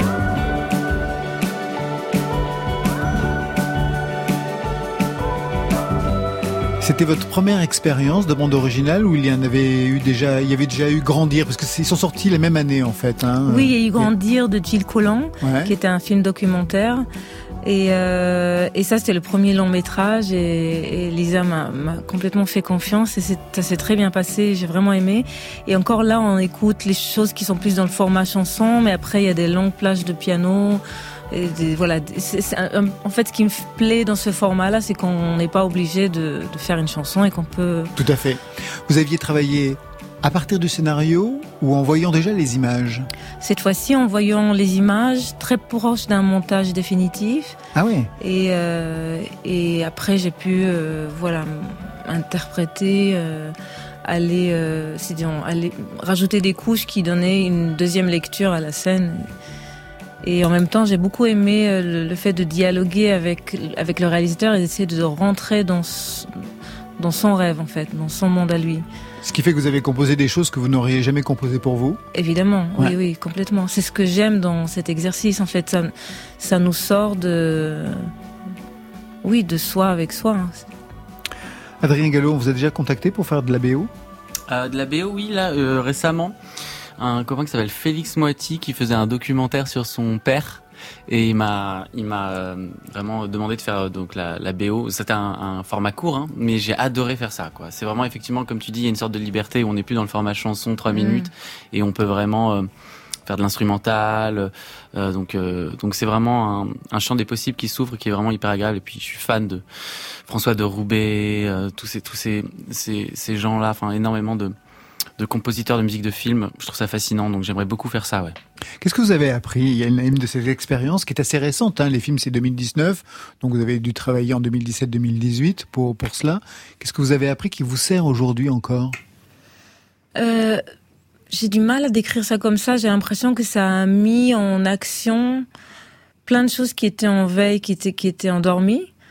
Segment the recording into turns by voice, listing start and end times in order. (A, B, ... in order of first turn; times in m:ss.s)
0:06.8-0:14.1 A
0:13.5-0:17.1 B
0:15.4-0:15.7 A
0:17.6-0:37.9 B
0:38.0-0:43.1 A
0:43.4-0:47.6 B
0:47.7-0:48.1 A
0:48.2-0:59.3 B
1:00.2-1:06.3 B
1:07.0-1:08.8 B
1:09.2-1:12.0 A
1:12.1-1:18.1 B
1:19.2-1:20.7 B
1:21.8-1:23.9 A
1:24.5-1:26.4 C
1:27.0-1:42.7 C
1:40.9-1:41.3 B
1:43.3-1:49.6 C
1:50.3-1:54.6 C
1:55.2-1:58.4 C
1:58.8-2:09.0 A
2:10.2-2:10.6 B
2:11.3-2:15.5 B
2:16.2-2:18.9 B